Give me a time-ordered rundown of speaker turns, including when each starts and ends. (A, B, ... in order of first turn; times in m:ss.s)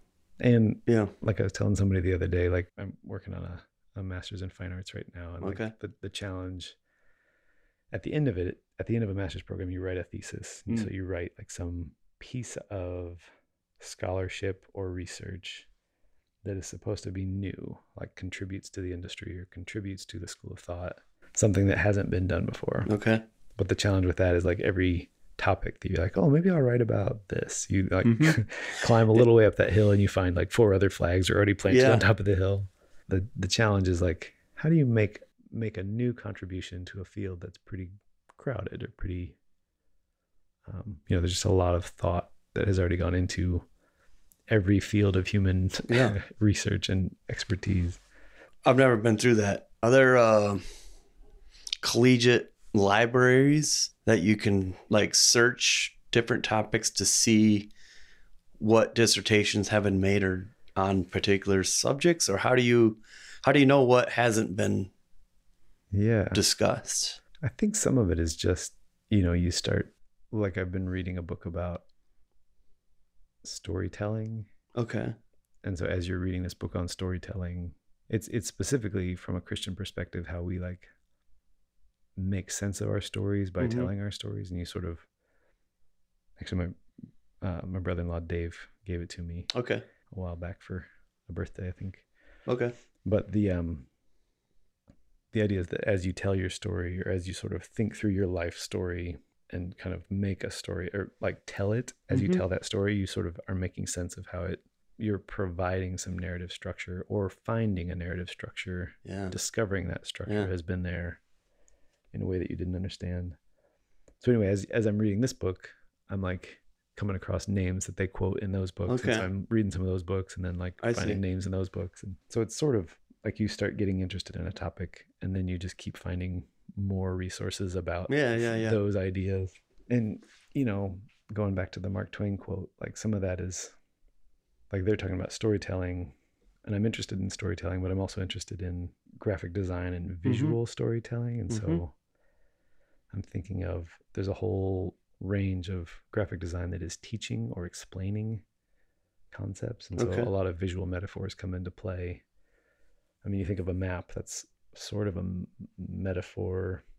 0:00.4-0:06.8 A
0:00.9-0:01.1 B
0:05.4-0:05.7 B
0:07.9-0:13.3 A
0:13.8-0:15.7 A
0:16.4-0:22.9 A
0:22.9-0:23.2 B
0:23.6-0:39.4 A
0:28.0-0:28.4 B
0:31.7-0:32.0 B
0:40.7-0:43.7 A
0:44.5-0:48.0 A
0:45.9-0:46.2 B
0:48.6-0:50.6 B
0:51.8-0:57.7 B
0:58.6-1:04.9 B
1:05.9-1:06.4 A
1:06.3-1:07.2 B
1:07.4-1:11.8 A
1:13.4-1:14.5 A
1:14.8-1:15.2 B
1:15.6-1:20.9 A
1:22.2-1:25.0 A
1:23.6-1:23.9 B
1:26.4-1:26.8 A
1:27.4-1:29.5 A
1:29.5-1:29.8 B
1:30.1-1:32.0 A
1:32.5-1:32.8 B
1:33.0-1:33.9 A
1:35.3-1:51.2 A
1:42.1-1:42.4 B
1:49.0-1:49.4 B
1:52.1-1:53.4 A
1:54.2-2:13.8 A
1:58.9-1:59.3 B
2:00.8-2:01.2 B
2:08.1-2:08.8 B
2:14.7-2:16.2 A
2:16.7-2:21.9 A
2:20.2-2:20.6 B
2:21.5-2:21.8 B
2:23.1-2:28.4 A
2:29.3-2:32.2 A
2:30.0-2:30.3 B
2:33.2-2:36.8 A